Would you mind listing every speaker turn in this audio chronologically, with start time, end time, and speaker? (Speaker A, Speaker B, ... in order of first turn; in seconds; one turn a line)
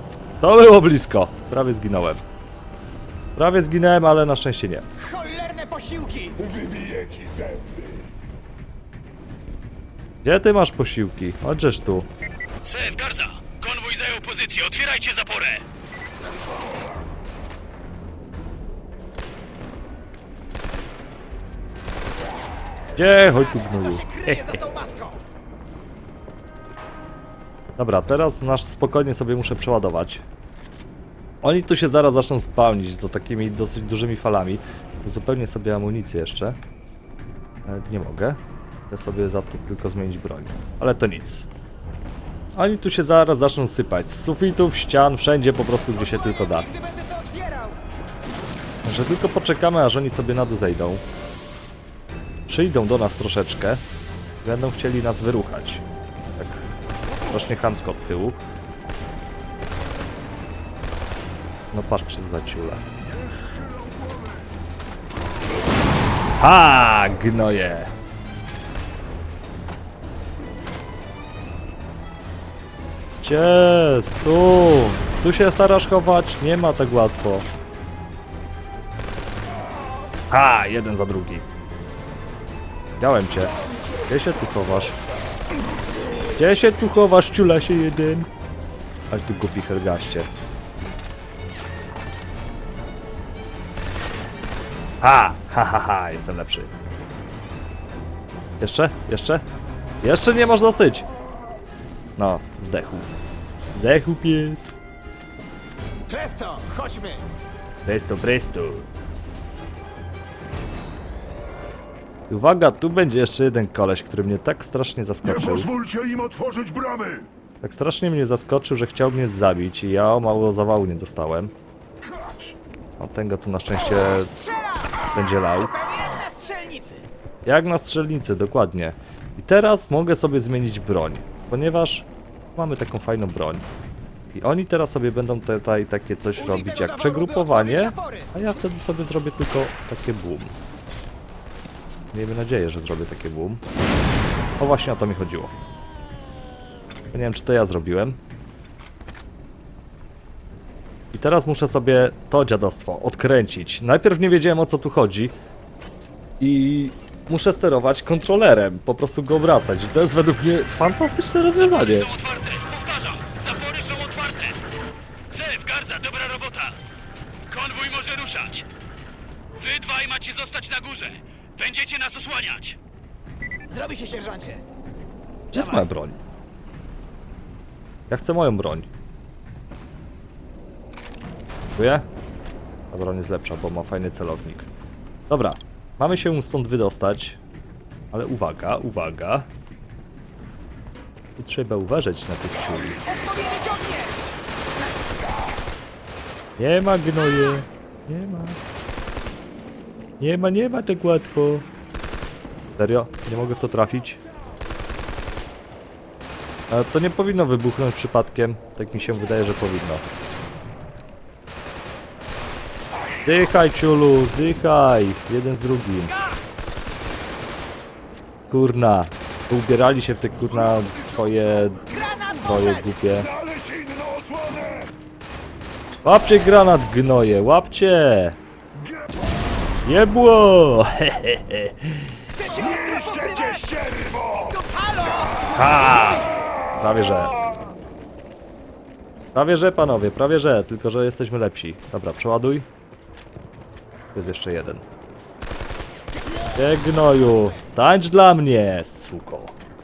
Speaker A: 0.4-2.2
Speaker A: 3.4-4.8
Speaker B: 5.0-6.4
Speaker C: 6.4-7.9
Speaker A: 10.2-12.1
Speaker D: 12.7-15.6
Speaker A: 22.9-24.6
Speaker B: 23.8-25.2
Speaker A: 27.8-30.2
Speaker A: 31.4-36.6
Speaker A: 37.7-38.4
Speaker A: 38.9-41.5
Speaker A: 42.5-46.7
Speaker B: 45.9-47.8
Speaker A: 48.8-51.0
Speaker A: 52.5-53.8
Speaker A: 54.4-56.7
Speaker A: 57.2-58.4
Speaker A: 61.7-62.8
Speaker C: 63.4-64.2
Speaker A: 66.4-67.9
Speaker A: 73.2-77.5
Speaker A: 80.3-81.5
Speaker A: 83.0-83.5
Speaker A: 84.1-85.0
Speaker A: 86.3-88.3
Speaker A: 89.1-90.3
Speaker A: 95.0-96.7
Speaker A: 98.6-99.4
Speaker A: 100.0-101.0
Speaker A: 102.2-103.1
Speaker A: 103.7-104.8
Speaker B: 106.1-107.2
Speaker A: 107.8-108.9
Speaker A: 112.3-115.7
Speaker C: 115.2-117.2
Speaker A: 117.6-121.5
Speaker A: 123.0-124.3
Speaker B: 123.8-127.1
Speaker A: 125.1-125.7
Speaker A: 127.5-133.7
Speaker A: 134.3-140.5
Speaker B: 136.3-138.6
Speaker A: 142.1-143.6
Speaker A: 144.6-145.5
Speaker A: 147.1-148.2
Speaker A: 151.1-155.3
Speaker A: 156.4-162.1
Speaker D: 161.8-164.6
Speaker D: 165.3-166.8
Speaker D: 167.5-168.7
Speaker D: 169.6-172.8
Speaker B: 173.7-174.6
Speaker A: 175.5-176.2
Speaker B: 175.5-175.9
Speaker A: 178.1-178.9
Speaker A: 181.8-182.0
Speaker A: 182.9-184.7
Speaker A: 185.3-187.4
Speaker A: 188.1-189.5
Speaker A: 191.4-193.0
Speaker B: 193.1-194.1
Speaker A: 196.6-198.6
Speaker A: 200.2-201.7
Speaker A: 202.8-204.2
Speaker A: 206.7-210.0
Speaker A: 213.2-216.1
Speaker A: 218.5-223.3
Speaker B: 221.9-222.9
Speaker C: 223.1-224.9
Speaker A: 226.0-228.4
Speaker A: 229.8-232.1
Speaker B: 232.4-236.1
Speaker C: 232.6-234.2
Speaker A: 235.5-237.3
Speaker A: 239.3-242.7
Speaker A: 244.1-244.8
Speaker A: 246.5-249.6